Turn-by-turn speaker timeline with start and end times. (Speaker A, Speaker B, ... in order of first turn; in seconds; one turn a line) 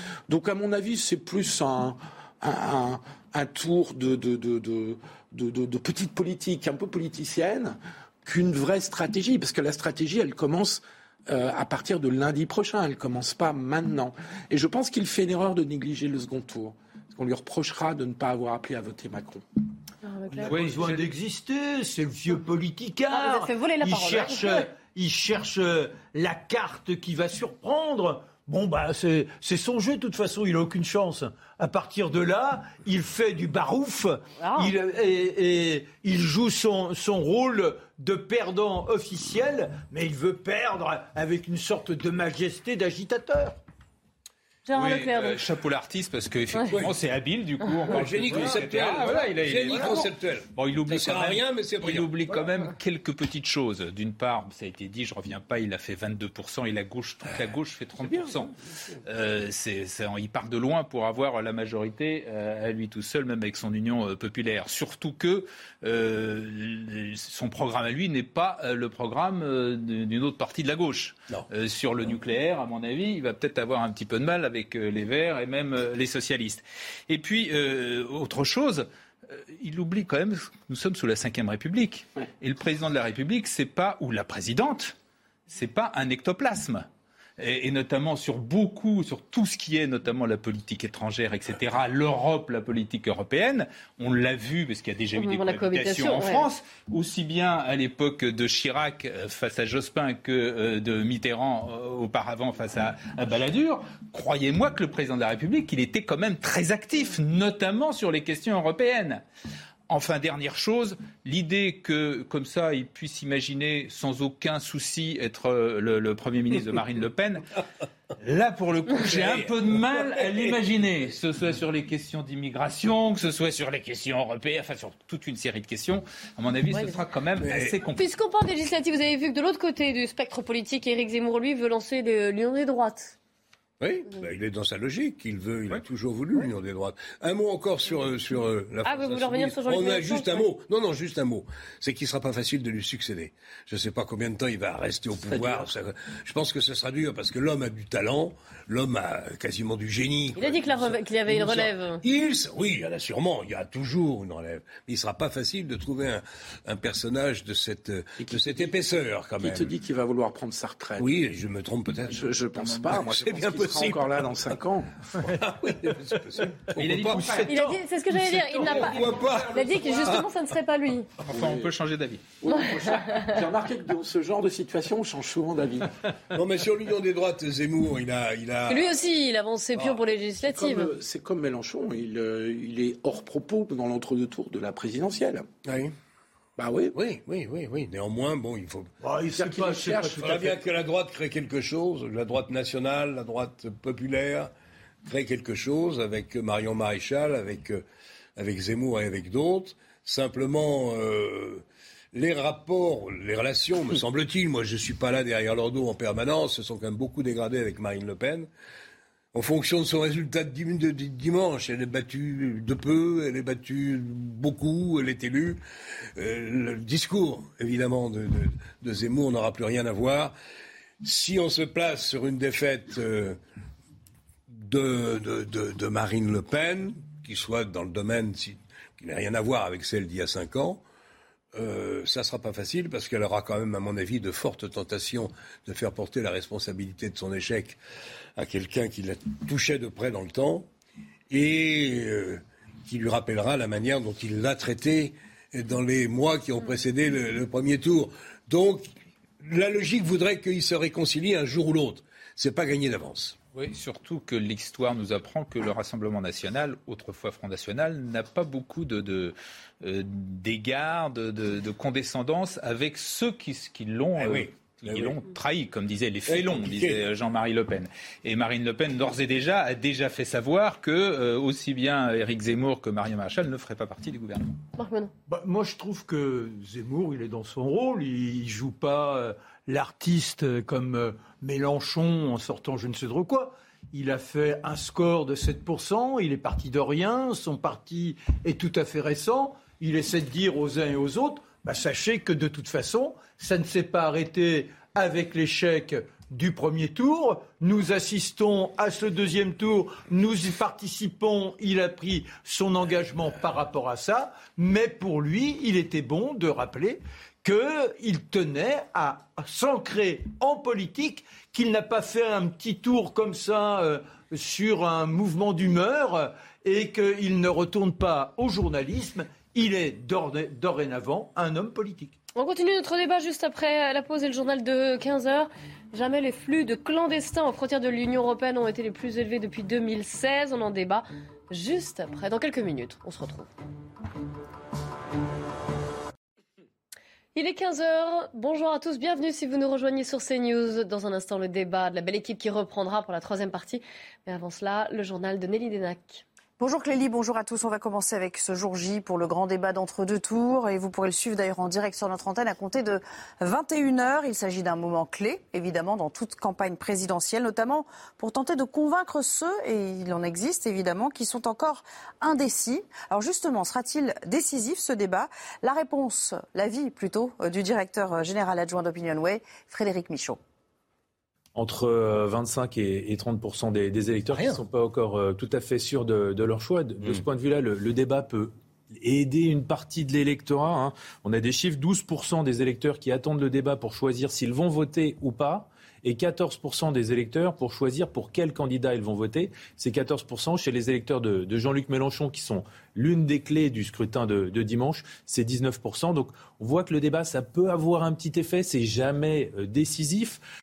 Speaker A: 0.3-19.4
Speaker B: 20.0-20.6
Speaker C: 20.3-43.6
Speaker D: 20.5-21.1
Speaker B: 23.1-24.6
Speaker B: 34.4-34.7
Speaker B: 44.7-45.4
Speaker D: 44.7-58.5
Speaker E: 46.6-46.9
Speaker E: 47.9-52.4
Speaker C: 49.7-50.1
Speaker E: 58.0-58.4
Speaker D: 59.0-84.9
Speaker D: 85.5-86.9
Speaker D: 87.4-109.2
Speaker B: 95.2-96.5
Speaker D: 109.9-117.4
Speaker D: 118.2-128.0
Speaker E: 119.1-119.5
Speaker B: 126.7-127.0
Speaker E: 127.4-127.8
Speaker B: 127.9-133.1
Speaker E: 133.8-159.7
Speaker B: 138.8-140.5
Speaker A: 145.2-145.7
Speaker B: 150.3-152.0
Speaker A: 158.2-158.7
Speaker A: 159.4-161.1
Speaker E: 161.0-164.3
Speaker A: 162.1-164.9
Speaker E: 165.2-167.4
Speaker D: 166.8-167.5
Speaker C: 167.1-167.8
Speaker B: 167.5-171.1
Speaker D: 168.3-170.2
Speaker E: 168.5-170.3
Speaker D: 171.3-172.3
Speaker A: 172.4-175.9
Speaker B: 172.5-173.3
Speaker E: 176.3-179.0
Speaker B: 178.7-180.9
Speaker A: 180.4-185.4
Speaker E: 185.6-185.9
Speaker A: 186.6-186.9
Speaker E: 186.9-188.9
Speaker C: 189.0-190.4
Speaker A: 189.3-190.6
Speaker E: 190.2-194.5
Speaker E: 195.0-197.8
Speaker E: 198.3-208.5
Speaker E: 209.3-215.6
Speaker E: 216.2-220.3
Speaker E: 221.0-223.4
Speaker E: 224.5-230.8
Speaker E: 231.6-237.8
Speaker E: 238.3-240.7
Speaker E: 241.3-248.9
Speaker E: 249.4-253.4
Speaker D: 253.5-274.6
Speaker E: 264.1-265.2
Speaker E: 266.3-267.0
Speaker B: 274.8-275.1
Speaker C: 275.3-322.2
Speaker B: 322.4-333.5
Speaker B: 337.3-346.2
Speaker F: 346.6-370.4
Speaker G: 371.5-400.4
Speaker E: 374.3-374.6